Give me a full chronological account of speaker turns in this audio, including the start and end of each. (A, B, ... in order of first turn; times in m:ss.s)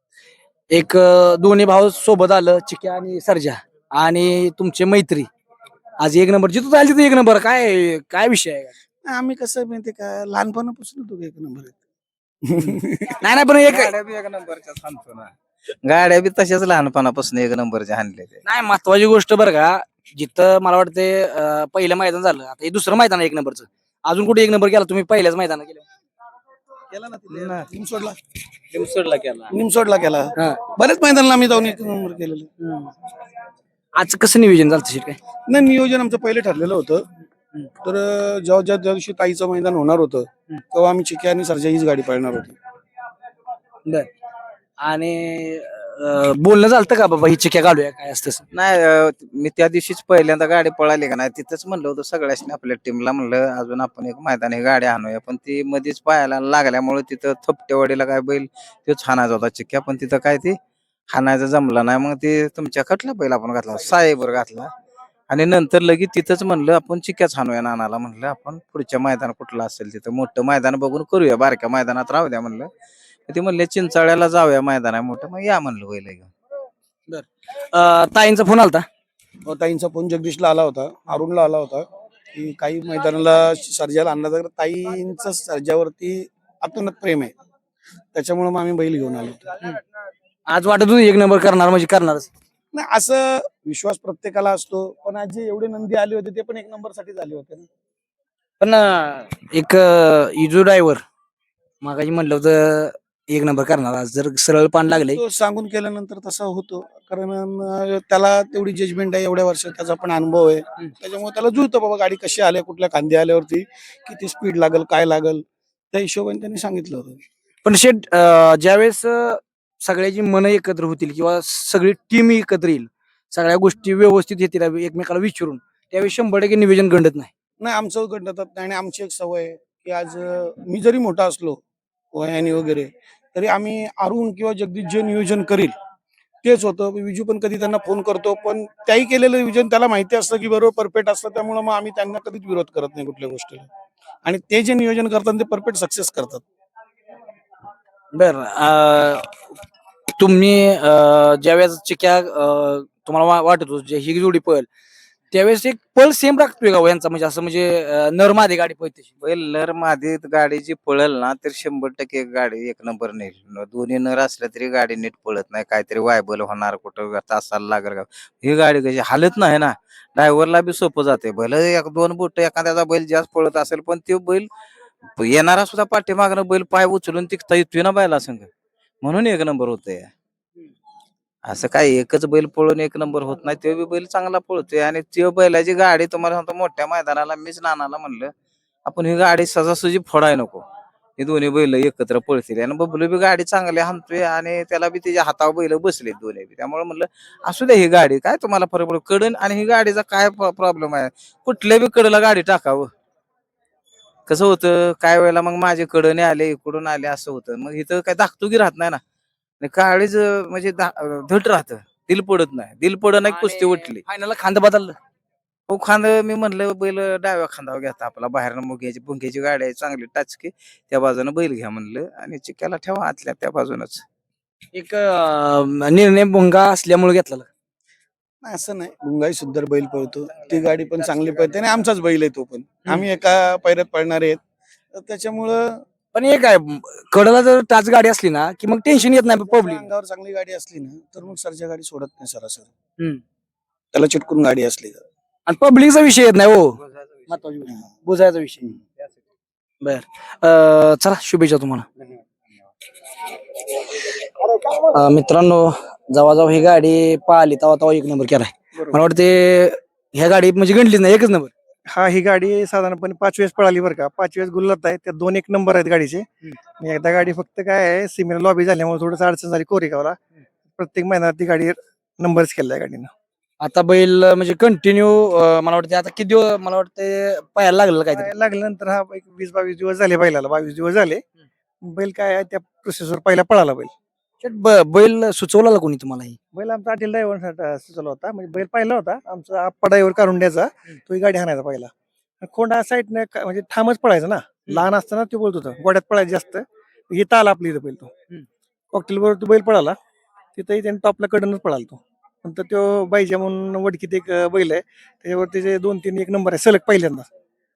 0:00.7-0:05.3 A
0:06.0-0:08.7 A
0:09.0-0:11.8 B
0:12.4-0:13.2 B
0:13.2-0:13.9 A
0:13.7-0:15.3 C
0:15.8-0:18.4 C
0:18.4-0:25.8 A
0:26.9-0:28.2 B
0:28.7-0:29.5 C
0:29.5-0:32.5 B
0:30.4-0:30.6 A
0:32.6-0:32.9 A
0:34.0-0:35.2 A
0:35.5-0:37.1 B
0:37.8-0:42.6 B
0:44.8-0:48.4 A
0:48.5-1:00.6 C
1:01.1-1:04.7 C
1:05.3-1:12.7 C
1:13.3-1:16.3 C
1:17.1-1:18.9 A
1:19.4-1:27.3 B
1:28.1-1:29.6 B
1:30.5-1:32.3 A
1:32.7-1:37.7 B
1:38.6-1:41.0 A
1:41.8-1:45.2 A
1:45.1-1:57.2 B
1:57.6-2:07.3 A
2:07.6-2:11.6 B
2:12.1-2:15.7 B
2:16.4-2:23.7 B
2:24.2-2:26.4 B
2:28.1-2:29.4 A
2:30.2-2:34.7 A
2:35.3-2:39.1 A
2:39.2-2:54.5 C
2:55.1-2:58.5 C
2:59.0-3:00.1 C
3:01.4-3:08.3 C
3:08.9-3:10.6 C
3:11.2-3:22.9 C
3:24.3-3:29.0 C
3:29.6-3:34.0 C
3:33.2-3:35.0 A
3:35.7-3:44.0 C
3:44.7-3:47.5 A
3:48.4-3:54.4 B
3:54.9-3:55.8 B
3:56.1-3:59.9 A
3:59.3-4:02.7 B
4:03.9-4:05.0 B
4:05.5-4:06.8 A
4:07.3-4:08.8 A
4:09.8-4:11.9 A
4:14.6-4:21.5 A
4:18.8-4:19.0 D
4:21.9-4:26.3 D
4:26.8-4:30.2 D
4:30.7-4:33.1 D
4:33.6-4:38.3 A
4:38.1-4:41.2 D
4:41.8-4:43.9 D
4:44.4-4:46.4 A
4:46.5-4:51.9 D
4:52.4-4:58.1 D
4:58.9-5:00.0 D
5:00.6-5:07.3 D